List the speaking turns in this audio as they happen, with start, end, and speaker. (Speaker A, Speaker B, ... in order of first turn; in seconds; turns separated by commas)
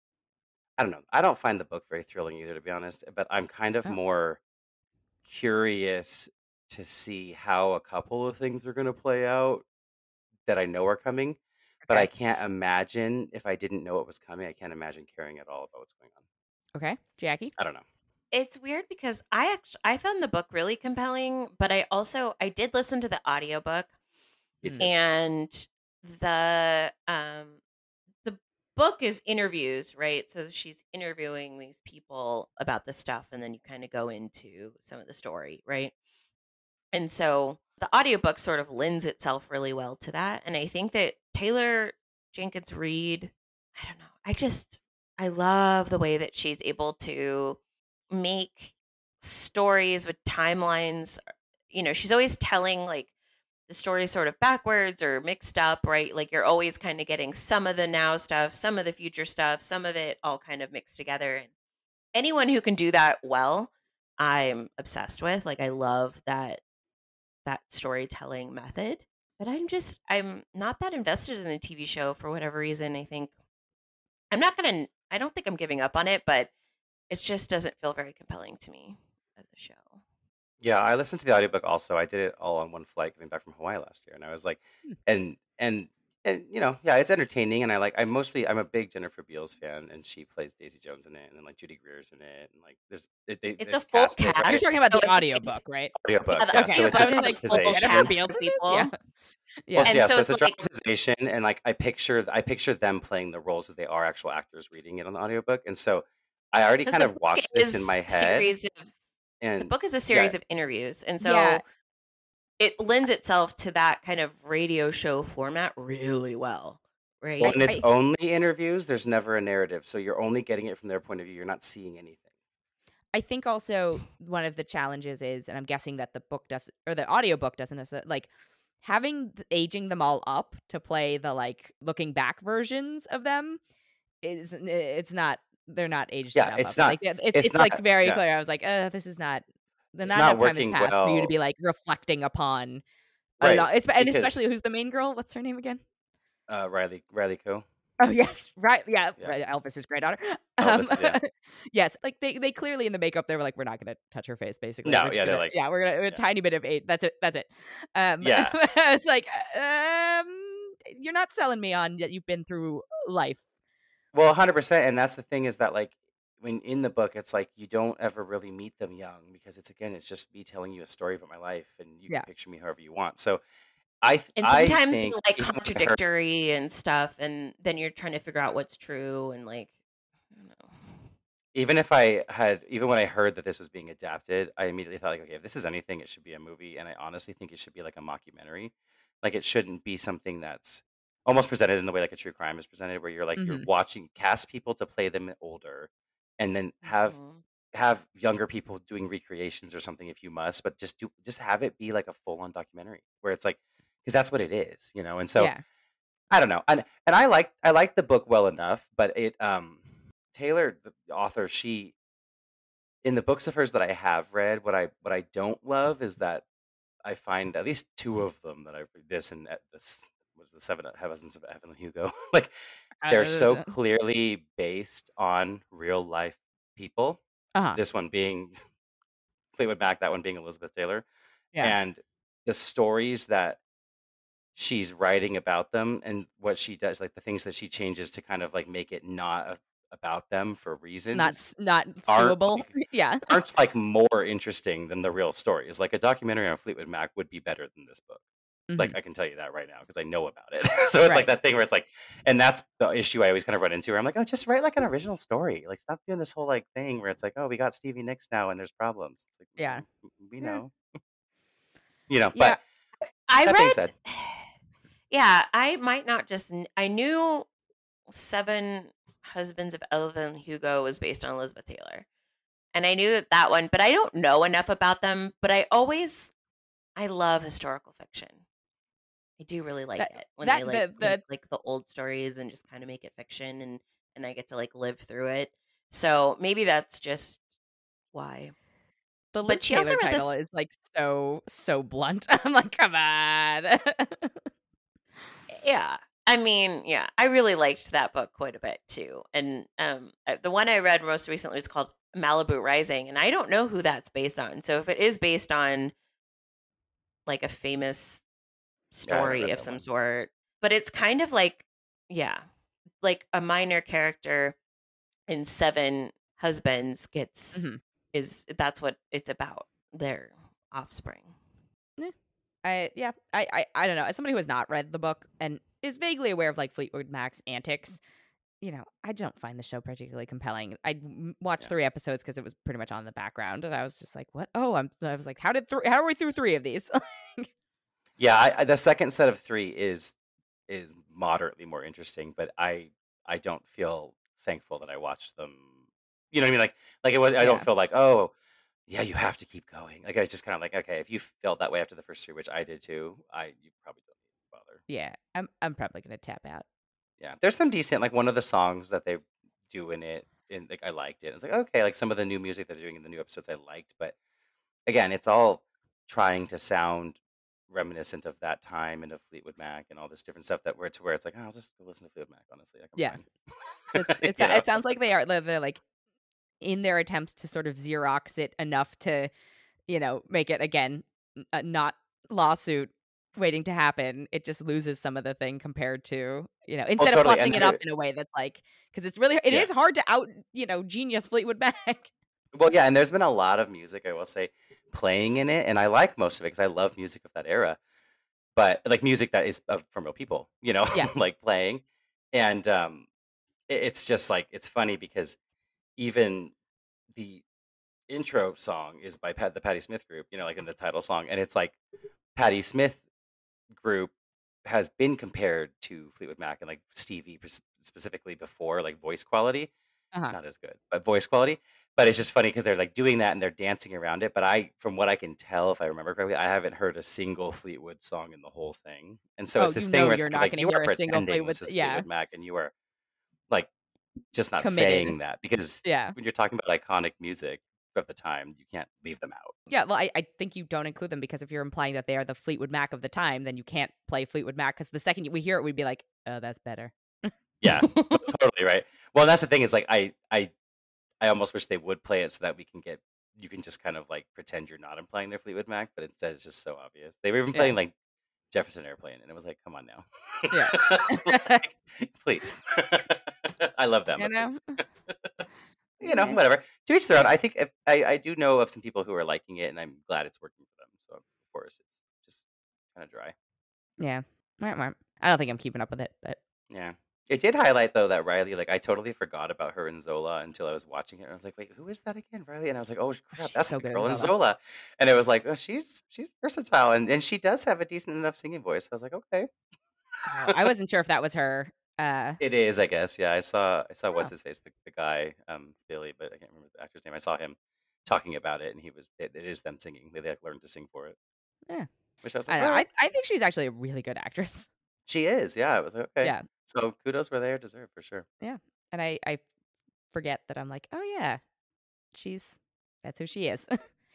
Speaker A: 0.8-4.4, Speaker A: 5.2-9.6, Speaker A: 10.4-16.1, Speaker B: 11.8-12.1, Speaker B: 16.7-17.5, Speaker A: 17.6-17.9, Speaker C: 18.3-23.9, Speaker A: 24.6-24.9, Speaker B: 24.6-24.9, Speaker C: 24.8-27.6, Speaker C: 28.2-35.9, Speaker C: 36.9-47.6, Speaker C: 48.1-51.2, Speaker C: 51.7-53.1, Speaker C: 53.7-61.5, Speaker C: 62.1-66.6, Speaker C: 67.4-73.3, Speaker C: 74.3-76.5, Speaker C: 77.1-80.0, Speaker A: 80.6-94.7, Speaker C: 93.6-95.6, Speaker B: 94.4-95.9, Speaker A: 95.9-98.2, Speaker C: 96.3-98.9, Speaker B: 96.5-98.9, Speaker B: 99.7-99.9, Speaker A: 99.8-108.5, Speaker C: 99.8-100.6, Speaker C: 106.8-108.9, Speaker A: 109.4-110.3, Speaker C: 109.6-111.6, Speaker B: 111.2-111.6, Speaker C: 112.6-117.6, Speaker A: 117.4-122.2, Speaker B: 117.4-117.8, Speaker B: 123.1-128.3, Speaker B: 128.8-133.6, Speaker B: 134.2-142.8, Speaker A: 136.3-138.2, Speaker A: 140.0-141.3, Speaker A: 143.4-144.4, Speaker B: 143.4-145.8, Speaker A: 146.5-147.6, Speaker B: 148.0-163.4, Speaker A: 150.6-151.2, Speaker A: 154.8-155.5, Speaker A: 158.2-158.6, Speaker A: 164.1-173.4, Speaker A: 174.0-176.0, Speaker C: 174.4-179.7, Speaker C: 180.3-181.1, Speaker A: 181.5-197.2, Speaker B: 193.3-193.7, Speaker C: 197.0-197.4, Speaker A: 197.7-205.5, Speaker B: 205.3-205.6, Speaker A: 206.3-211.9, Speaker A: 213.0-216.4, Speaker A: 217.0-222.5, Speaker B: 223.0-223.7, Speaker A: 223.1-227.2, Speaker A: 227.8-228.5, Speaker A: 229.5-231.1, Speaker A: 231.6-233.6, Speaker A: 234.6-241.4, Speaker B: 241.1-243.3, Speaker A: 242.1-248.2, Speaker B: 248.7-249.0, Speaker A: 248.8-260.7, Speaker B: 251.0-251.3, Speaker B: 259.6-259.8, Speaker A: 262.1-262.6, Speaker B: 262.3-262.6, Speaker C: 263.3-264.4, Speaker A: 263.4-263.9, Speaker C: 265.1-267.5, Speaker C: 268.1-272.1, Speaker C: 272.7-276.3, Speaker C: 277.0-278.4, Speaker C: 279.4-287.4, Speaker B: 280.0-281.2, Speaker C: 288.1-288.5, Speaker B: 289.3-294.4, Speaker C: 289.5-290.3, Speaker C: 295.5-305.9, Speaker C: 307.2-308.2, Speaker C: 308.9-312.4, Speaker A: 309.1-309.8, Speaker C: 313.0-314.6, Speaker C: 315.3-321.3, Speaker B: 317.5-317.8, Speaker B: 322.6-328.0, Speaker B: 328.6-337.5, Speaker A: 338.2-340.1, Speaker A: 340.7-345.7, Speaker A: 346.3-348.3, Speaker B: 347.4-347.7, Speaker A: 348.9-354.8, Speaker B: 354.9-356.6, Speaker A: 357.2-364.1, Speaker A: 364.9-367.2, Speaker A: 367.7-374.7, Speaker B: 373.9-375.8, Speaker B: 376.6-379.3, Speaker B: 379.9-392.1, Speaker A: 387.0-387.8, Speaker A: 392.5-397.8, Speaker A: 398.6-403.1, Speaker A: 403.7-405.4, Speaker A: 406.0-406.5, Speaker A: 407.1-407.4, Speaker A: 408.1-411.8, Speaker A: 412.4-413.0, Speaker A: 413.7-414.1, Speaker A: 414.6-419.7, Speaker A: 420.3-432.7, Speaker B: 429.6-432.1, Speaker A: 434.3-439.6, Speaker B: 434.6-435.2, Speaker B: 435.8-436.1, Speaker B: 439.7-447.3, Speaker A: 447.6-450.5, Speaker A: 451.2-457.9, Speaker A: 458.5-465.3, Speaker B: 460.5-461.6, Speaker B: 464.2-464.8, Speaker A: 466.0-472.4, Speaker B: 466.0-466.4, Speaker A: 472.9-473.3, Speaker B: 474.0-476.4, Speaker A: 476.7-489.5, Speaker B: 483.4-484.3, Speaker B: 490.2-492.4, Speaker A: 492.4-501.1, Speaker A: 502.2-502.9, Speaker B: 502.5-504.7, Speaker A: 505.1-508.2, Speaker B: 508.4-509.4, Speaker B: 510.1-511.4, Speaker B: 512.1-513.8